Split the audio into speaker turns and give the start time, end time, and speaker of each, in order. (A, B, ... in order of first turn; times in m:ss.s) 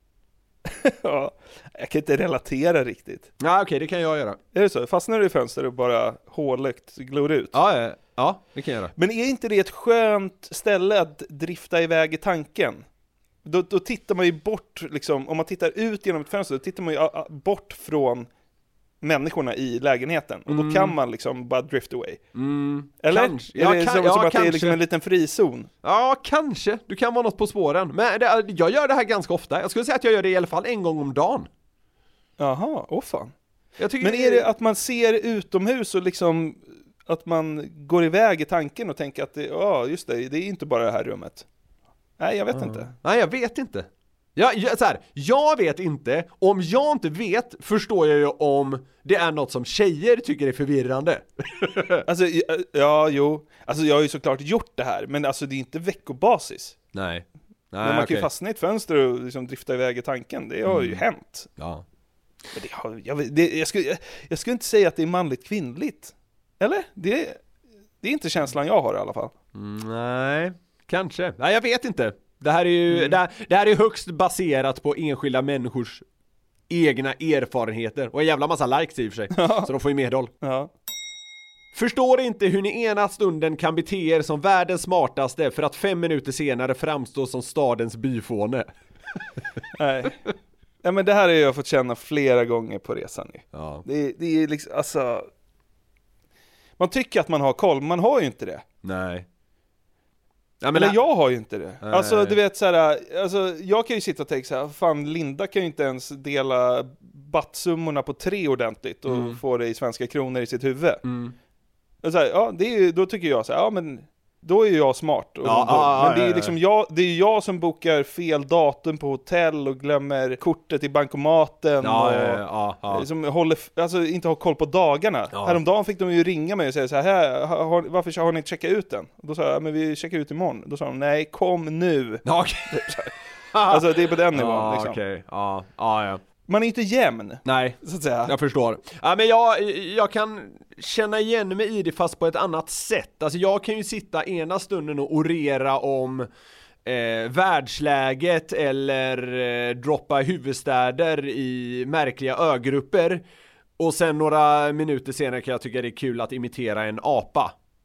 0:00.6-0:03.3 A
0:03.4-0:04.4 B
0:04.5-0:07.6 A
0:07.5-0:08.9 B
0:09.0-0:12.8 A
0:13.4-0:18.3 A
0:19.0-0:22.2 A
0:20.5-0:20.9 B
0:22.3-0:24.8 B
0:23.0-0:25.7 A
0:25.8-0:31.5 B
0:32.4-0:33.3 A
0:33.8-0:34.5 B
0:34.0-0:41.4 A
0:42.2-0:42.9 A
0:42.5-0:52.0 B
0:52.1-0:56.8 A
0:56.9-0:58.3 B
0:57.8-1:01.5 A
1:00.6-1:01.0 B
1:01.6-1:01.8 B
1:02.5-1:07.4 A
1:08.0-1:09.3 A
1:09.5-1:16.0 B
1:12.9-1:13.2 A
1:16.7-1:20.3 B
1:19.3-1:19.7 A
1:20.4-1:20.7 A
1:21.7-1:28.7 B
1:29.8-1:30.2 A
1:30.8-1:35.3 A
1:33.5-1:33.8 B
1:36.8-1:38.6 A
1:38.8-1:39.2 B
1:40.6-1:41.0 B
1:40.7-1:51.0 A
1:41.8-1:42.4 B
1:49.1-1:49.4 B
1:51.0-1:51.3 B
1:52.0-2:13.1 A
1:55.4-1:56.5 B
2:01.8-2:03.1 B
2:05.3-2:05.6 B
2:12.2-2:12.7 B
2:13.5-2:16.2 B
2:13.7-2:15.0 A
2:16.5-2:18.3 A
2:17.4-2:26.3 B
2:26.8-2:33.2 B
2:33.8-2:37.5 B